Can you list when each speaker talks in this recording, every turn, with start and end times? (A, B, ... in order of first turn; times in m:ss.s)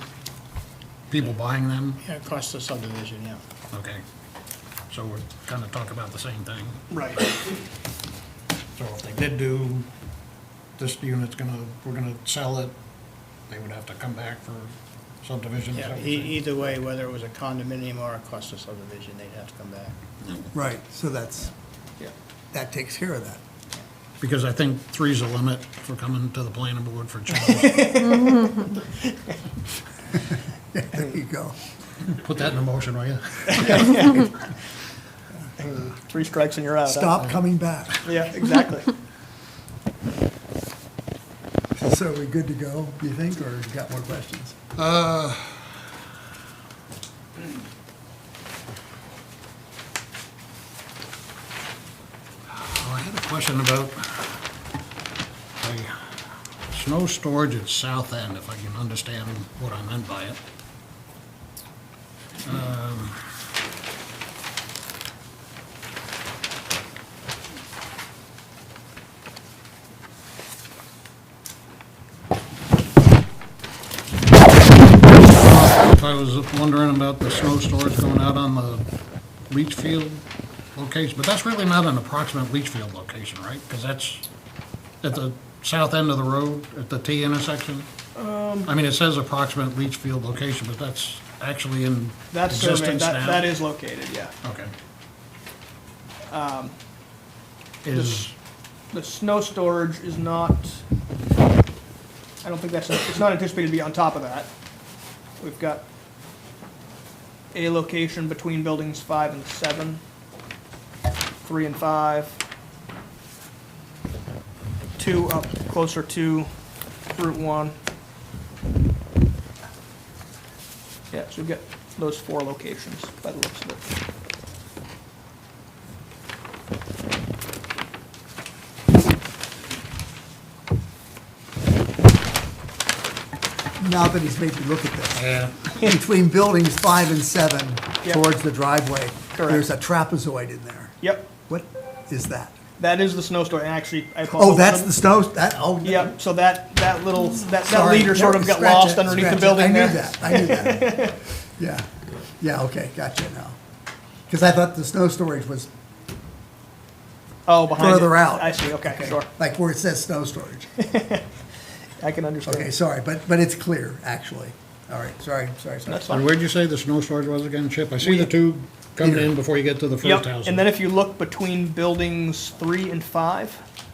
0:01.1-0:02.0 A
0:02.0-0:03.4 B
0:03.7-0:04.0 A
0:04.9-0:07.2 A
0:06.9-0:07.3 C
0:08.8-0:09.9 A
0:10.8-0:12.7 A
0:13.5-0:16.6 A
0:15.7-0:20.0 B
0:20.2-0:20.5 A
0:20.5-0:21.5 D
0:22.5-0:23.4 D
0:24.2-0:28.1 A
0:27.4-0:29.3 C
0:30.7-0:31.6 D
0:32.0-0:34.0 A
0:33.5-0:34.6 C
0:35.6-0:37.2 C
0:36.8-0:38.1 D
0:38.0-0:38.9 C
0:41.8-0:44.6 D
0:44.8-0:45.8 A
0:52.5-0:54.5 A
0:55.6-1:00.4 A
1:02.4-1:03.5 A
1:15.2-1:18.8 A
1:19.5-1:20.2 A
1:20.8-1:24.2 A
1:25.0-1:27.9 A
1:28.2-1:28.7 C
1:28.6-1:33.5 A
1:32.3-1:34.3 C
1:34.4-1:34.7 A
1:36.3-1:36.7 C
1:37.8-1:38.3 A
1:37.9-1:38.3 C
1:38.9-1:40.8 C
1:42.4-1:44.5 C
1:45.4-1:45.8 C
1:47.5-1:50.0 C
1:51.4-1:52.4 C
1:55.0-1:56.5 C
1:57.1-1:57.7 C
2:01.1-2:03.8 C
2:13.8-2:21.0 D
2:15.2-2:15.9 A
2:19.3-2:19.6 C
2:21.0-2:21.3 C
2:21.5-2:22.5 D
2:22.8-2:24.9 C
2:24.3-2:26.1 D
2:25.8-2:31.2 C
2:27.6-2:31.9 D
2:32.4-2:33.6 D
2:34.3-2:35.7 D
2:37.5-2:39.3 C
2:37.8-2:40.7 D
2:40.8-2:41.2 C
2:42.0-2:42.7 C
2:42.4-2:46.1 D
2:45.9-2:46.3 C
2:46.1-2:50.7 A
2:48.0-2:48.3 C
2:50.0-2:53.6 C